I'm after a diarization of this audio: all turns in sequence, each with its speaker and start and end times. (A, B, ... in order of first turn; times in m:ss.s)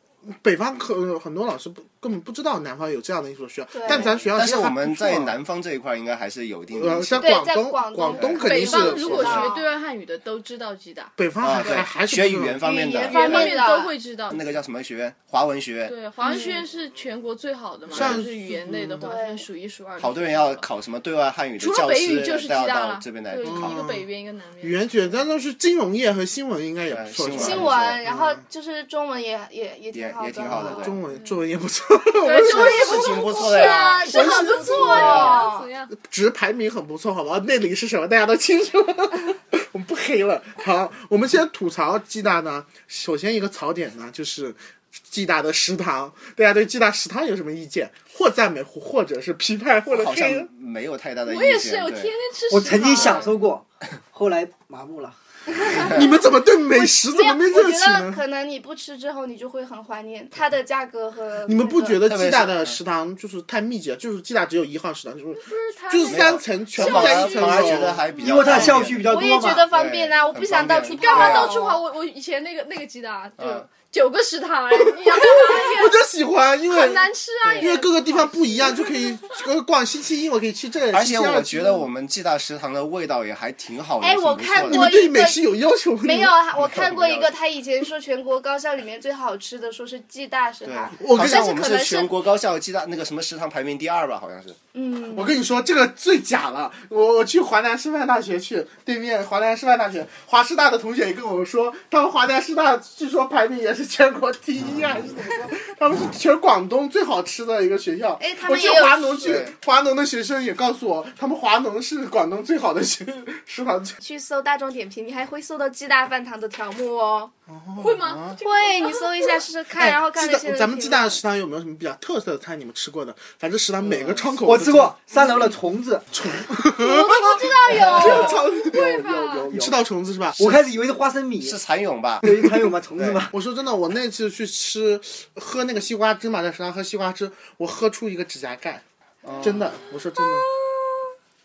0:00.2-0:05.4 A
0:03.7-0:04.1 B
0:03.9-0:07.4 C
0:06.7-0:09.4 A
0:07.2-0:09.7 B
0:08.1-0:09.5 C
0:08.4-0:11.8 D
0:11.2-0:12.6 A
0:11.4-0:13.6 C
0:12.6-0:13.9 B
0:12.8-0:14.4 D
0:14.3-0:16.0 C
0:15.9-0:20.7 D
0:16.2-0:16.6 B
0:17.9-0:18.3 C
0:17.9-0:19.1 A
0:19.0-0:19.4 B
0:20.0-0:23.8 C
0:21.6-0:24.8 D
0:23.4-0:24.0 A
0:24.6-0:28.4 A
0:26.9-0:28.0 C
0:27.3-0:31.0 B
0:29.9-0:31.0 C
0:30.4-0:33.1 A
0:32.2-0:35.9 D
0:32.3-0:34.1 C
0:32.4-0:35.7 B
0:34.1-0:35.4 A
0:34.8-0:35.4 C
0:35.9-0:50.5 A
0:49.9-0:52.1 C
0:51.2-0:53.4 D
0:52.5-0:55.2 E
0:55.6-0:56.0 B
0:55.7-0:58.2 A
0:56.7-1:02.0 B
1:01.4-1:08.0 A
1:02.0-1:02.8 C
1:05.4-1:08.7 D
1:06.0-1:09.1 C
1:08.2-1:09.7 E
1:09.0-1:11.8 B
1:09.7-1:11.6 C
1:10.9-1:16.0 D
1:13.4-1:13.6 C
1:15.0-1:21.9 A
1:16.6-1:19.3 D
1:17.4-1:17.8 C
1:20.9-1:24.9 C
1:24.0-1:25.4 B
1:24.6-1:26.4 A
1:26.0-1:32.1 B
1:26.6-1:27.3 C
1:30.6-1:34.6 C
1:31.0-1:31.4 A
1:34.7-1:35.3 B
1:35.1-1:54.0 A
1:44.6-1:45.0 C
1:48.2-1:49.4 B
1:49.2-1:49.5 C
1:54.0-1:57.3 B
1:57.5-1:58.4 A
1:57.8-1:59.4 D
1:58.4-2:01.2 B
1:59.8-2:04.9 A
2:03.9-2:04.4 C
2:04.4-2:06.1 E
2:06.1-2:10.6 A
2:06.7-2:08.4 B
2:06.9-2:09.6 D
2:08.8-2:09.8 E
2:10.4-2:11.6 E
2:11.4-2:12.3 C
2:12.2-2:13.3 E
2:12.3-2:12.7 A
2:13.0-2:13.2 C
2:13.3-2:18.8 A
2:19.2-2:19.7 C
2:19.4-2:20.5 A
2:20.6-2:21.0 B